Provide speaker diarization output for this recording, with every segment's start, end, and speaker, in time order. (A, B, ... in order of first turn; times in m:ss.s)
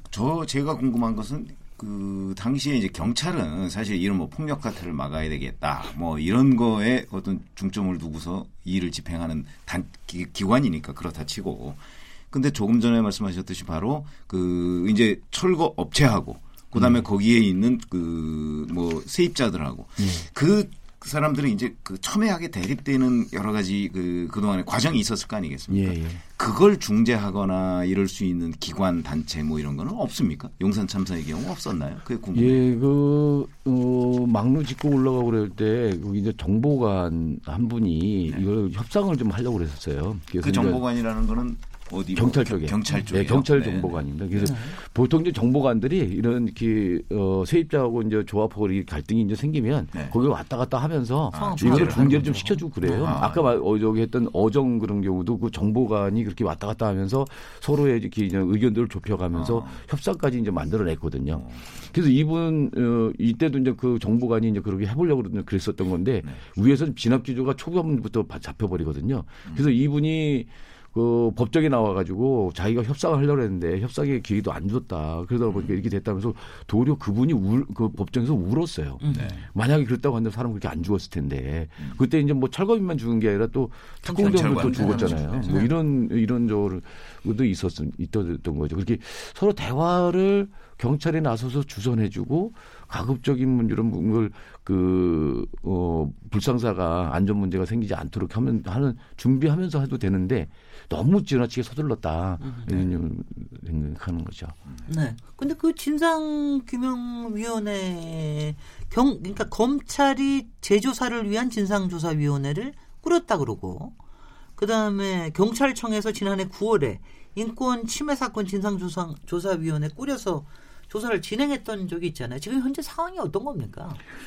0:00.1-0:32.6 A
0:16.8-0:17.0 B
0:20.0-0:20.3 B
0:25.7-0:26.2 B
0:32.3-0:40.8 B
0:40.4-0:44.5 A
0:42.1-1:44.6 B
0:44.4-0:44.8 C
0:51.3-0:52.4 A
0:51.3-0:53.1 C
0:53.0-0:53.5 A
0:59.3-0:59.8 A
1:01.3-1:01.8 A
1:19.0-1:19.3 C
1:19.1-1:19.4 A
1:24.0-1:25.7 C
1:24.1-1:25.6 A
1:42.4-1:42.8 C
1:44.9-1:54.0 C
1:54.6-2:04.0 C